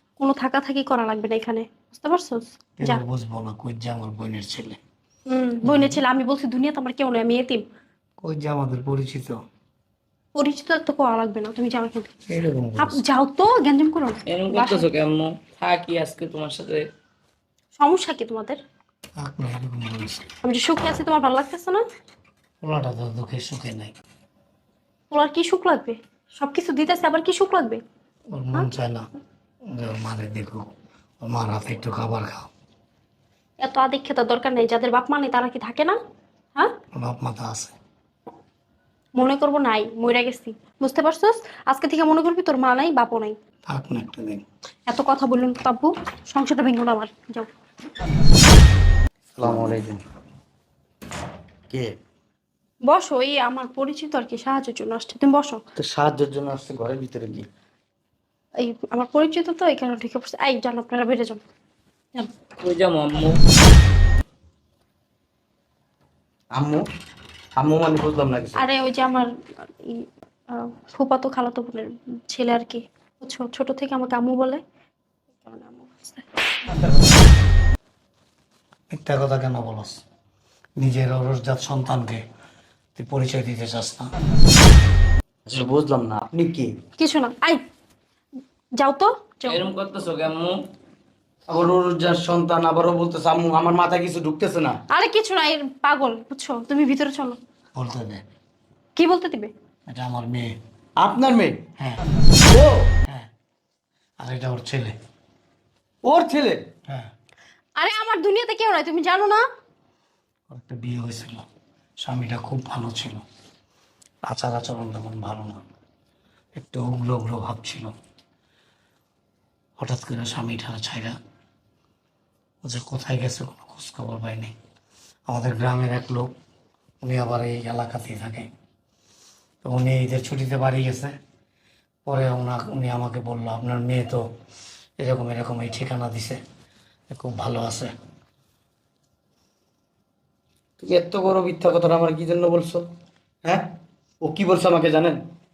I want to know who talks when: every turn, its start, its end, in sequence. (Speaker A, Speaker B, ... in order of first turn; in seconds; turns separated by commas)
Speaker A: 0.2-3.0, Speaker B: 2.8-4.8, Speaker A: 5.3-7.7, Speaker B: 5.7-6.0, Speaker B: 8.2-9.4, Speaker A: 10.3-12.1, Speaker B: 12.3-13.0, Speaker A: 12.8-14.9, Speaker C: 14.3-16.8, Speaker A: 17.8-18.6, Speaker B: 19.2-20.2, Speaker A: 20.4-21.8, Speaker B: 22.6-23.9, Speaker A: 25.1-27.8, Speaker B: 28.3-29.1, Speaker B: 29.7-30.7, Speaker B: 31.2-32.5, Speaker A: 33.6-36.0, Speaker B: 37.0-37.8, Speaker A: 39.2-43.4, Speaker B: 43.7-44.5, Speaker A: 44.9-47.5, Speaker D: 49.4-50.0, Speaker A: 52.9-55.6, Speaker D: 55.8-57.5, Speaker A: 58.6-61.4, Speaker C: 62.6-63.4, Speaker D: 66.5-66.8, Speaker D: 67.6-68.6, Speaker A: 68.6-69.3, Speaker A: 69.8-74.6, Speaker A: 75.4-76.3, Speaker B: 76.8-77.2, Speaker B: 78.9-80.0, Speaker B: 80.8-82.2, Speaker B: 83.0-84.1, Speaker D: 85.5-86.7, Speaker A: 87.0-87.6, Speaker A: 88.8-89.6, Speaker C: 89.5-90.6, Speaker D: 91.5-94.8, Speaker A: 94.9-97.4, Speaker B: 97.8-98.2, Speaker A: 99.0-99.5, Speaker B: 99.9-100.5, Speaker D: 101.0-101.7, Speaker B: 101.8-102.0, Speaker D: 102.5-102.9, Speaker B: 104.2-105.0, Speaker D: 106.0-106.6, Speaker A: 107.8-109.4, Speaker B: 110.5-111.5, Speaker B: 112.0-113.2, Speaker B: 114.3-115.6, Speaker B: 116.5-117.9, Speaker B: 119.8-121.2, Speaker B: 122.6-124.5, Speaker B: 125.3-126.3, Speaker B: 127.0-128.5, Speaker B: 129.6-131.1, Speaker B: 132.1-134.2, Speaker B: 135.0-136.4, Speaker B: 137.1-137.9, Speaker D: 140.8-142.8, Speaker D: 144.2-145.2